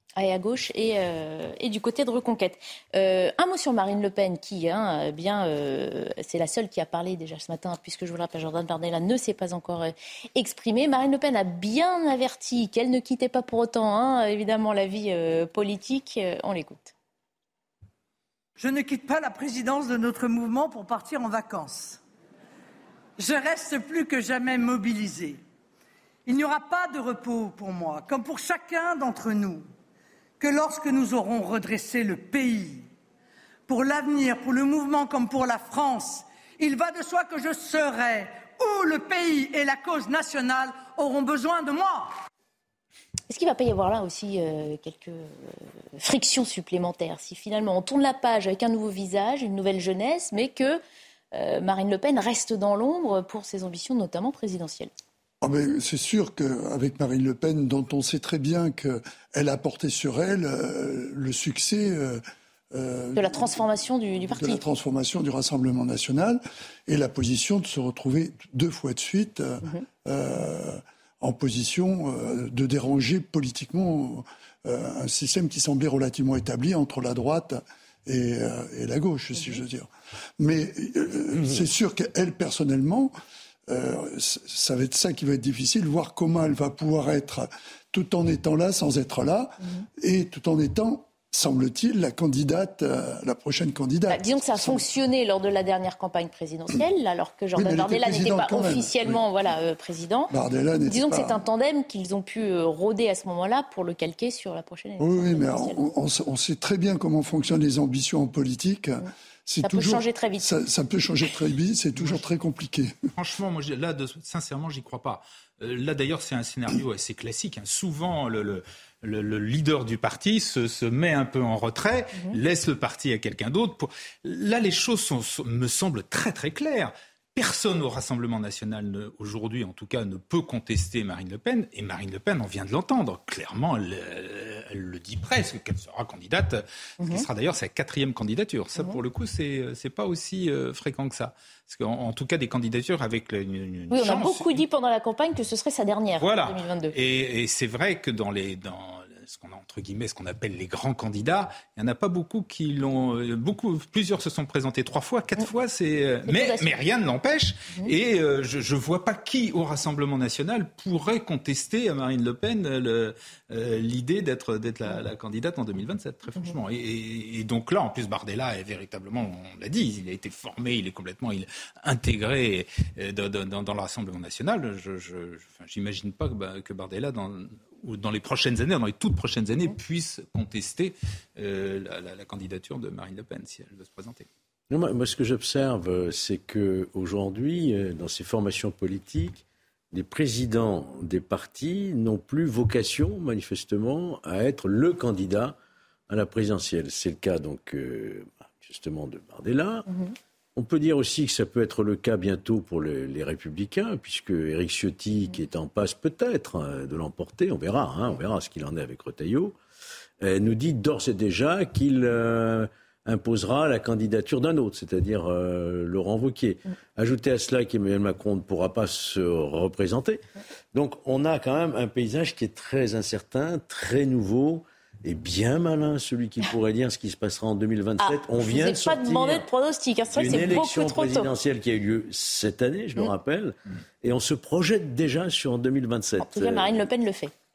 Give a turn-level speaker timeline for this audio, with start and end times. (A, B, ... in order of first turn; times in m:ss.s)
0:00.2-0:16.9 A
0:18.6-0:22.0 B
0:23.2-0:25.4 B
0:26.2-0:29.6 B
0:30.4-0:32.9 B
0:33.7-0:42.1 B
0:43.3-0:50.8 A
0:51.3-0:54.9 A
0:55.4-1:03.6 C
1:03.2-1:04.6 A
1:04.2-1:23.1 C
1:23.7-1:34.8 C
1:34.1-1:40.3 A
1:37.5-1:39.2 C
1:40.3-1:41.4 C
1:40.9-1:45.8 A
1:45.0-1:52.9 C
1:49.6-1:50.5 A
1:52.0-1:52.2 D
1:53.1-2:24.6 D
2:23.9-2:26.9 A
2:26.2-3:04.3 D
2:36.3-2:36.8 A
3:04.7-3:15.6 E
3:16.1-3:19.8 E
3:20.6-3:29.6 E
3:30.2-3:49.4 E
3:48.0-3:51.3 A
3:50.1-3:56.8 E
3:56.2-3:57.3 A